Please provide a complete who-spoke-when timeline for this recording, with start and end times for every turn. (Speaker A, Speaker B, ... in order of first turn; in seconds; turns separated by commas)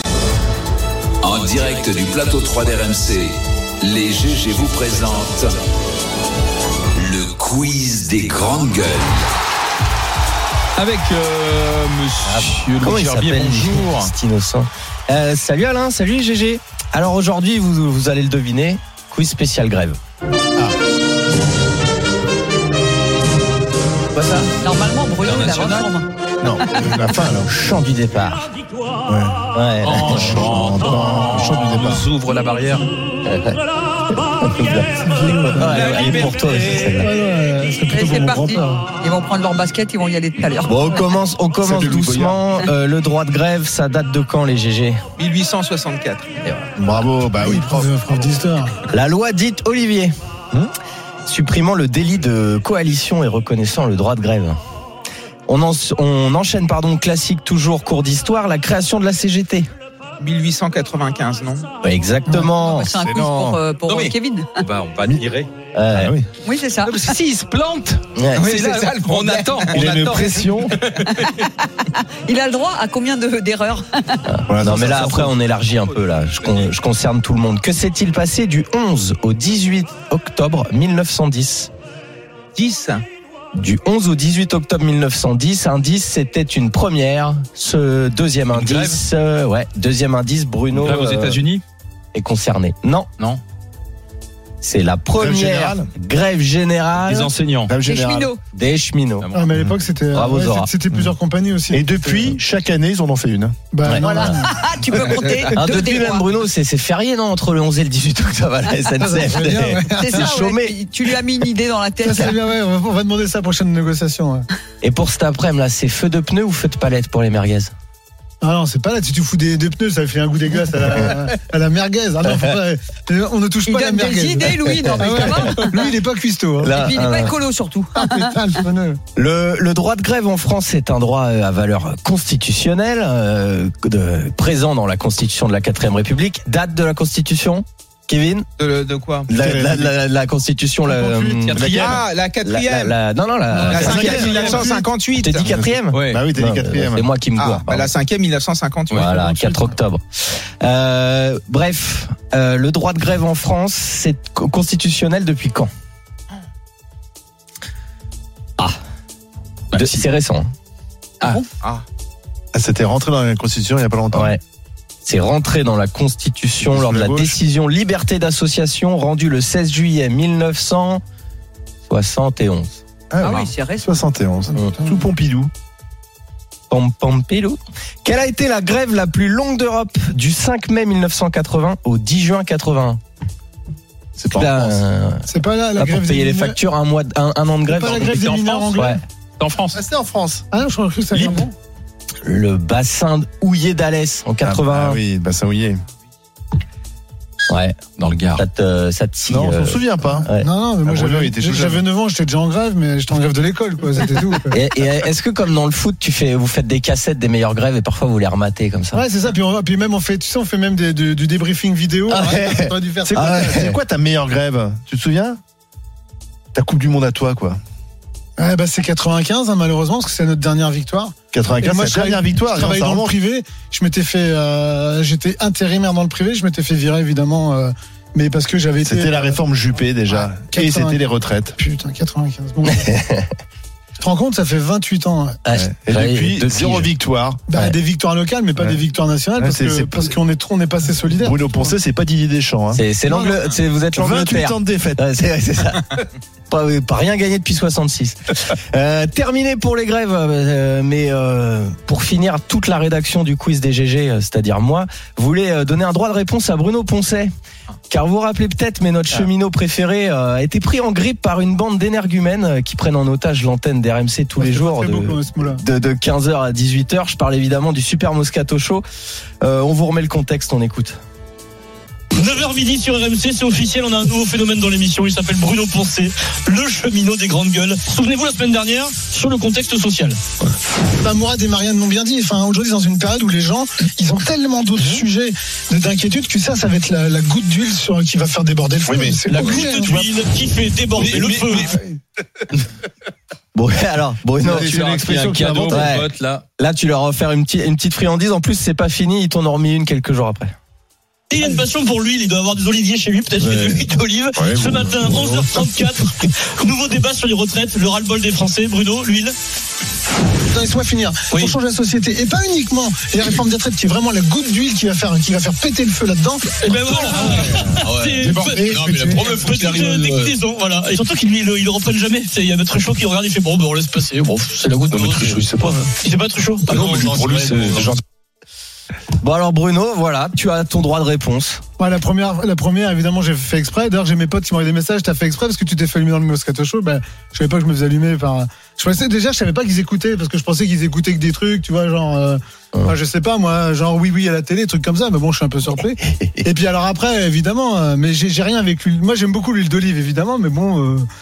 Speaker A: 1.2-5.5, Speaker A: 7.0-9.2, Speaker B: 10.8-14.1, Speaker C: 12.2-20.0, Speaker C: 24.1-24.5, Speaker D: 24.6-26.1, Speaker B: 25.2-25.9, Speaker E: 26.4-27.5, Speaker C: 27.3-28.5, Speaker E: 29.1-29.4, Speaker C: 29.5-30.4, Speaker B: 29.8-32.9, Speaker E: 30.0-32.1, Speaker C: 33.3-33.6, Speaker C: 34.1-34.9, Speaker F: 35.0-38.9, Speaker C: 35.4-37.1, Speaker B: 35.7-36.8, Speaker D: 37.9-40.8, Speaker C: 40.6-45.0, Speaker E: 41.6-42.4, Speaker G: 45.2-46.3, Speaker E: 46.7-47.9, Speaker F: 47.4-48.8, Speaker C: 48.9-50.1, Speaker C: 51.2-54.5, Speaker C: 55.5-59.7, Speaker G: 60.2-61.7, Speaker C: 61.8-63.0, Speaker F: 62.2-62.5, Speaker D: 62.5-64.7, Speaker B: 63.1-65.5, Speaker C: 65.7-66.1, Speaker E: 65.9-66.2, Speaker D: 66.4-67.2, Speaker B: 66.8-70.6, Speaker C: 68.1-68.6, Speaker G: 68.3-69.8, Speaker E: 69.7-70.7, Speaker C: 70.2-70.5, Speaker D: 71.0-74.3, Speaker C: 74.3-81.7, Speaker E: 74.5-75.3, Speaker B: 76.4-76.7, Speaker G: 82.5-83.0, Speaker C: 83.5-91.5, Speaker B: 88.5-89.0, Speaker B: 90.7-91.6, Speaker C: 92.1-93.1, Speaker C: 94.6-97.3, Speaker E: 95.2-95.9, Speaker B: 97.0-97.7, Speaker E: 97.7-98.3, Speaker D: 97.8-98.4, Speaker C: 98.5-99.3, Speaker B: 99.2-99.5, Speaker F: 99.3-102.3, Speaker C: 100.1-100.7, Speaker E: 101.7-103.6, Speaker F: 103.7-105.4, Speaker C: 103.8-104.4, Speaker D: 104.0-106.3, Speaker C: 105.5-110.7, Speaker F: 108.9-110.3, Speaker D: 109.9-112.3, Speaker F: 112.0-114.5, Speaker C: 114.8-117.7, Speaker F: 118.4-126.8, Speaker C: 122.2-122.6, Speaker D: 123.6-125.9, Speaker C: 124.7-125.6, Speaker C: 126.6-127.4, Speaker D: 126.7-128.4, Speaker F: 127.9-129.0, Speaker C: 129.1-138.5, Speaker G: 138.6-139.3, Speaker C: 139.3-141.7, Speaker E: 139.3-139.9, Speaker E: 140.9-141.6, Speaker B: 141.4-142.1, Speaker G: 141.6-143.0, Speaker C: 142.4-147.9, Speaker F: 143.5-144.8, Speaker E: 143.6-144.6, Speaker G: 143.7-145.5, Speaker E: 145.5-147.1, Speaker B: 145.9-146.3, Speaker G: 147.3-149.0, Speaker C: 148.9-155.7, Speaker F: 149.1-149.6, Speaker B: 159.7-160.0, Speaker C: 159.7-160.5, Speaker E: 162.5-164.3, Speaker C: 164.1-164.4, Speaker C: 165.0-171.0, Speaker E: 166.6-167.4, Speaker C: 171.9-172.8, Speaker E: 173.1-175.5, Speaker D: 173.2-173.9, Speaker F: 174.6-175.0, Speaker C: 176.7-183.0, Speaker E: 184.2-184.8, Speaker C: 184.3-188.2, Speaker F: 185.2-186.6, Speaker F: 187.6-189.0, Speaker B: 187.8-189.8, Speaker C: 188.7-189.0, Speaker E: 189.7-190.4, Speaker F: 190.5-191.5, Speaker B: 191.1-191.5, Speaker C: 192.2-195.0, Speaker E: 194.4-195.8, Speaker C: 197.5-200.5, Speaker B: 198.0-198.4, Speaker E: 199.3-200.3, Speaker F: 200.3-204.6, Speaker E: 200.8-201.8, Speaker C: 204.5-209.0, Speaker F: 208.9-213.6, Speaker E: 212.1-215.4, Speaker C: 212.1-212.4, Speaker C: 213.1-213.8, Speaker E: 216.5-217.6, Speaker F: 218.4-229.4, Speaker E: 221.3-223.1, Speaker E: 228.8-231.6, Speaker F: 230.1-231.1, Speaker F: 231.6-232.9, Speaker C: 232.6-233.3, Speaker F: 234.0-235.4, Speaker C: 235.4-236.9, Speaker E: 235.5-237.8, Speaker F: 237.5-241.7, Speaker E: 239.4-240.2, Speaker E: 241.1-242.8, Speaker C: 242.7-257.3, Speaker E: 243.9-245.1, Speaker C: 257.9-268.8, Speaker F: 264.3-265.6, Speaker C: 269.4-271.0, Speaker H: 272.1-280.2, Speaker F: 281.0-290.0, Speaker E: 288.9-289.4, Speaker H: 289.3-291.8, Speaker B: 291.0-291.7, Speaker C: 293.5-294.7, Speaker B: 294.4-296.4, Speaker E: 294.4-295.9, Speaker C: 295.7-300.5, Speaker H: 301.3-309.3, Speaker E: 303.4-303.8, Speaker E: 304.4-305.6, Speaker F: 310.5-316.9, Speaker H: 316.6-327.9, Speaker B: 317.0-320.3, Speaker B: 324.9-325.7, Speaker B: 326.7-328.0, Speaker C: 329.2-331.6, Speaker F: 331.8-351.1